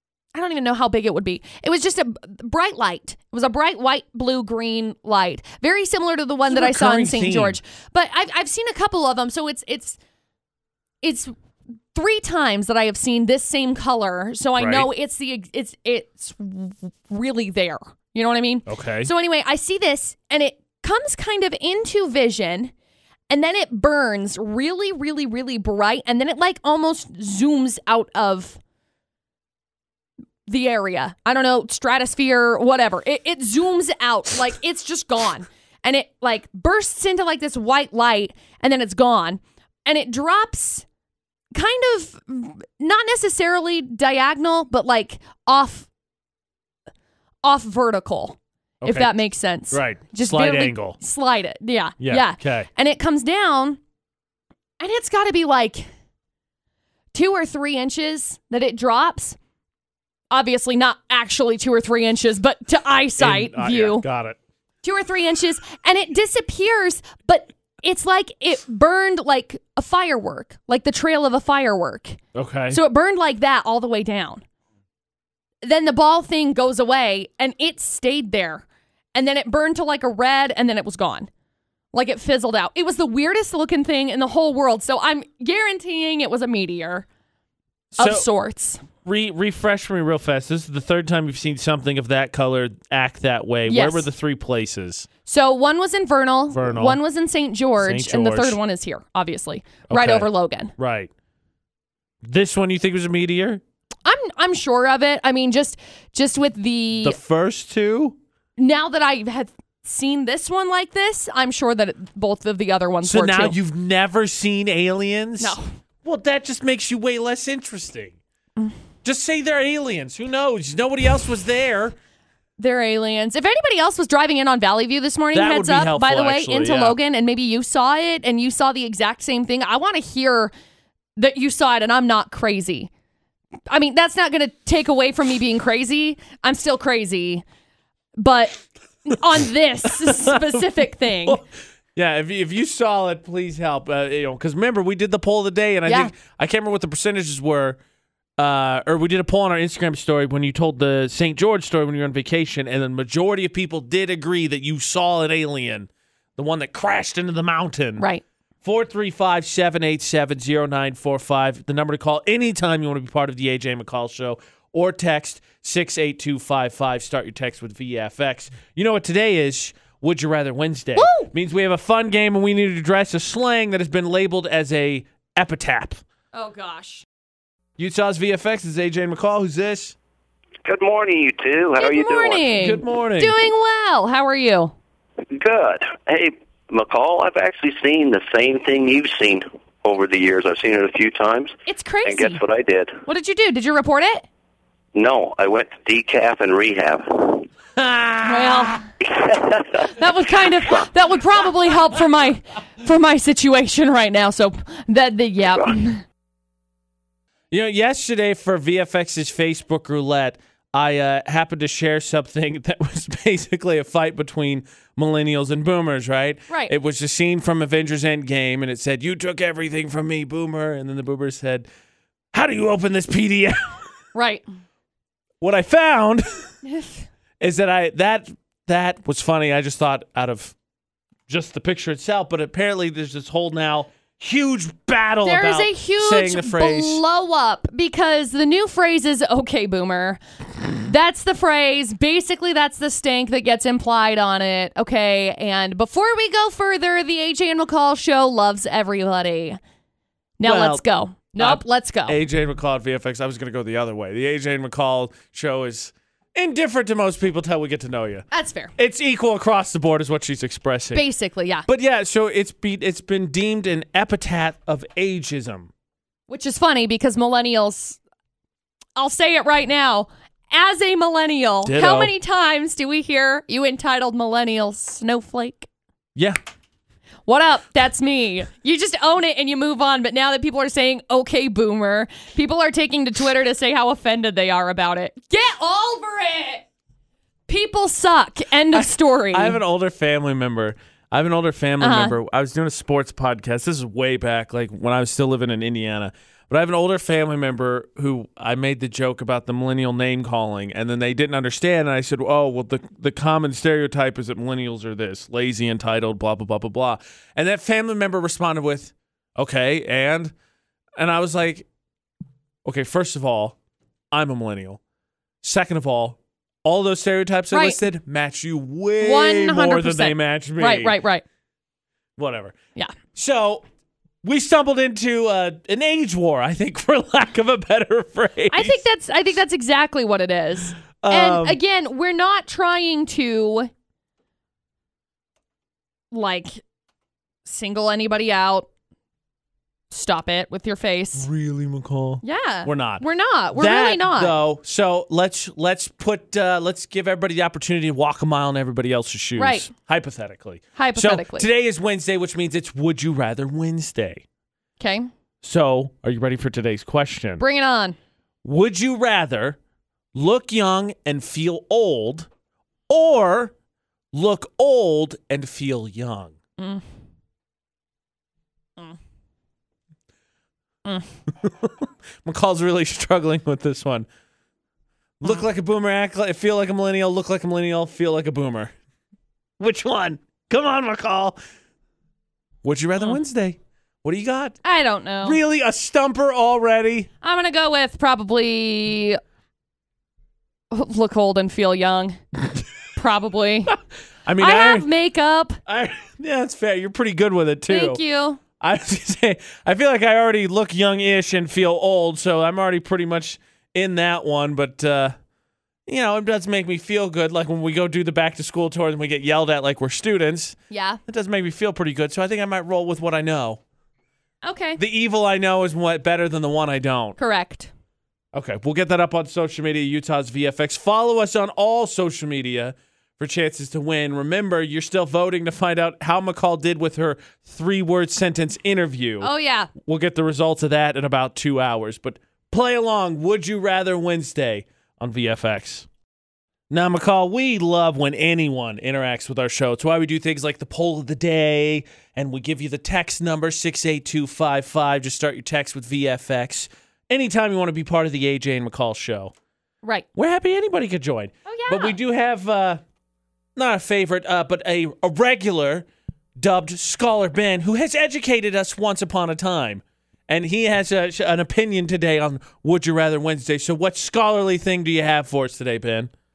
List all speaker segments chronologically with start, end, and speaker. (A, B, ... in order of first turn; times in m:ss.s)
0:00.3-0:10.0 A
0:06.5-0:07.6 B
0:11.0-0:11.3 A
0:11.9-0:22.7 A
0:14.6-0:14.9 B
0:18.7-0:19.1 B
0:23.3-0:28.6 A
0:30.5-0:40.8 A
0:41.6-0:45.9 A
0:47.4-0:53.8 A
0:48.8-0:49.1 B
0:49.7-0:51.0 B
0:52.0-0:52.7 B
0:54.8-0:55.9 A
0:57.1-0:59.4 A
1:00.3-1:04.0 A
1:03.2-1:04.4 B
1:04.8-1:14.4 A
1:12.3-1:12.8 B
1:15.6-1:18.6 A
1:19.2-1:21.3 A
1:21.9-1:27.1 A
1:28.0-1:28.3 B
1:28.0-1:28.8 A
1:29.0-1:35.1 B
1:33.7-1:34.1 A
1:35.3-1:40.7 A
1:36.5-1:37.0 B
1:37.8-1:38.6 B
1:39.9-1:41.1 B
1:42.2-1:43.6 B
1:44.0-1:47.2 A
1:47.0-1:48.2 B
1:48.6-1:53.6 A
1:53.0-1:58.2 B
1:59.0-2:02.0 B
2:02.6-2:10.5 A
2:05.3-2:07.0 B
2:11.2-2:12.9 A
2:13.7-2:17.4 A
2:18.2-2:21.4 A
2:19.9-2:20.6 B
2:21.2-2:27.8 B
2:25.9-2:26.1 A
2:28.4-2:38.1 B
2:38.0-2:38.2 A
2:38.6-2:56.0 B
2:51.0-2:51.3 A
2:56.3-2:57.0 A
2:57.8-3:00.0 B
3:00.6-3:02.6 C
3:01.8-3:04.7 A
3:02.6-3:03.4 B
3:05.3-3:13.0 C
3:11.7-3:12.4 A
3:13.1-3:14.3 A
3:14.9-3:17.5 C
3:17.8-3:18.7 B
3:18.3-3:18.9 A
3:19.0-3:19.9 C
3:19.8-3:26.0 A
3:27.5-3:41.7 B
3:42.3-3:43.8 B
3:44.1-3:44.4 A
3:45.4-3:46.5 B
3:46.6-3:47.1 A
3:47.4-3:50.5 B
3:51.3-3:57.0 B
3:55.2-4:00.2 A
4:00.8-4:09.6 A
4:10.4-4:12.2 A
4:10.4-4:10.8 B
4:11.4-4:18.2 B
4:18.3-4:18.7 A
4:18.8-4:21.0 B
4:20.9-4:21.7 A
4:21.7-4:25.7 B
4:26.3-4:28.0 A
4:29.0-4:35.7 A
4:31.6-4:32.1 B
4:37.3-4:46.6 A
4:47.5-4:49.6 A
4:48.7-5:10.3 B
4:51.8-4:52.2 A
5:11.0-5:11.7 B
5:12.6-5:13.6 B
5:14.1-5:14.8 B
5:15.4-5:21.0 B
5:17.5-5:17.8 A
5:19.0-5:21.2 A
5:22.2-5:22.6 B
5:23.1-5:23.6 B
5:24.2-5:28.8 B
5:28.5-5:33.7 A
5:31.0-5:31.6 B
5:36.1-5:36.6 A
5:37.5-5:38.7 A
5:39.9-5:41.3 A
5:41.2-5:54.2 B
5:42.2-5:44.4 A
5:49.4-5:49.7 A
5:50.8-5:51.5 A
5:54.8-5:55.1 A
5:55.4-5:57.4 B
5:57.4-5:58.0 A
5:58.4-5:59.6 B
6:00.1-6:02.3 B
6:02.9-6:03.5 B
6:04.1-6:06.4 B
6:06.6-6:06.8 A
6:11.4-6:14.1 B
6:15.2-6:18.7 B
6:19.6-6:21.4 B
6:22.6-6:24.6 B
6:24.6-6:25.4 A
6:25.2-6:27.1 B
6:27.2-6:29.2 A
6:30.7-6:32.2 A
6:33.0-6:33.8 A
6:34.3-6:34.9 B
6:34.4-6:35.6 A
6:35.7-6:38.0 B
6:37.7-6:38.4 A
6:38.6-6:45.2 B
6:45.9-6:53.6 B
6:50.7-6:51.0 A
6:54.4-6:54.8 A
6:54.8-6:57.2 B
6:57.2-6:57.7 A
6:58.3-7:15.9 B
7:09.2-7:09.7 A
7:16.7-7:29.3 B
7:30.2-7:32.8 B
7:31.5-7:32.0 A
7:33.6-7:35.9 B
7:36.4-7:46.1 B